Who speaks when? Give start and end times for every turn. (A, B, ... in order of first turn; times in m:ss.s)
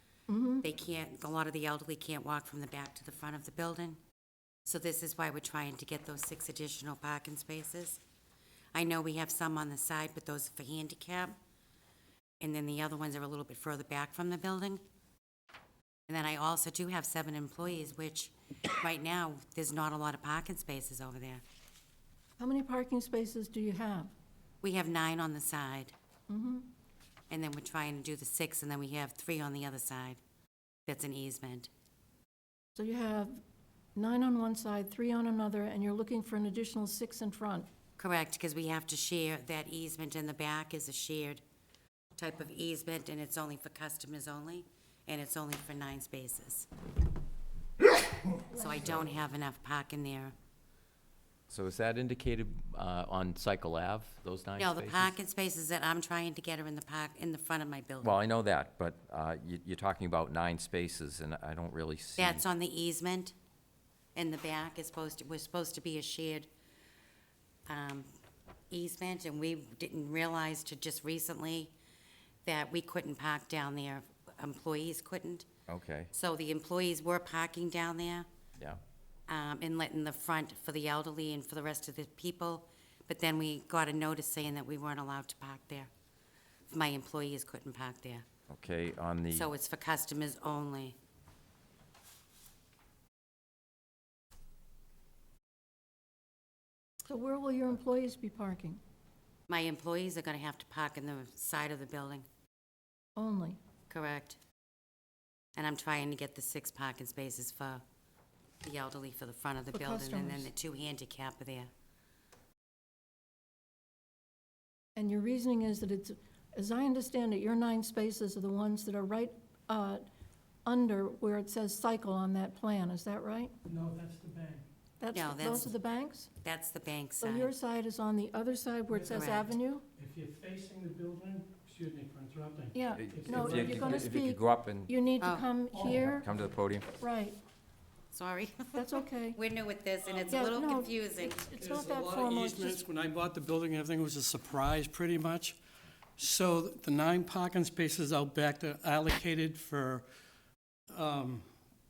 0:00.3-0:00.6 A
0:00.6-0:04.0 B
0:04.7-0:08.0 B
0:08.7-0:11.4 B
0:12.4-0:14.8 B
0:16.1-0:21.4 B
0:22.4-0:24.1 A
0:24.6-0:25.9 B
0:26.3-0:26.7 A
0:27.3-0:30.2 B
0:30.9-0:31.7 B
0:32.8-0:33.4 A
0:34.0-0:37.7 A
0:38.0-0:41.4 B
0:42.2-0:46.7 B
0:48.5-0:50.4 B
0:48.6-0:49.0 A
0:51.5-0:55.1 C
0:54.6-0:58.2 B
0:58.0-1:02.4 C
1:02.2-1:03.3 B
1:04.2-1:06.5 B
1:07.7-1:08.1 B
1:08.7-1:11.7 B
1:12.5-1:15.5 B
1:15.7-1:16.1 C
1:16.1-1:18.3 B
1:19.3-1:25.9 B
1:26.7-1:28.3 B
1:28.5-1:29.5 C
1:29.3-1:31.0 B
1:37.1-1:38.8 A
1:39.5-1:42.3 B
1:43.2-1:43.6 A
1:43.9-1:44.4 B
1:45.6-1:47.8 B
1:48.6-1:51.7 B
1:49.7-1:50.5 A
1:55.0-2:00.1 A
2:00.7-2:03.5 A
2:03.6-2:04.7 D
2:05.0-2:06.3 A
2:05.1-2:05.8 B
2:06.4-2:07.6 B
2:07.2-2:09.8 A
2:08.9-2:09.3 D
2:09.1-2:09.5 B
2:09.9-2:14.1 D
2:12.7-2:16.3 A
2:12.9-2:15.0 C
2:15.2-2:15.5 B
2:15.7-2:16.2 D
2:16.0-2:16.9 C
2:17.0-2:17.4 A
2:18.1-2:18.8 B
2:18.8-2:19.4 A
2:19.3-2:21.5 B
2:20.1-2:20.4 D
2:20.3-2:22.8 A
2:21.6-2:25.6 D
2:26.2-2:30.1 D
2:30.9-2:31.5 D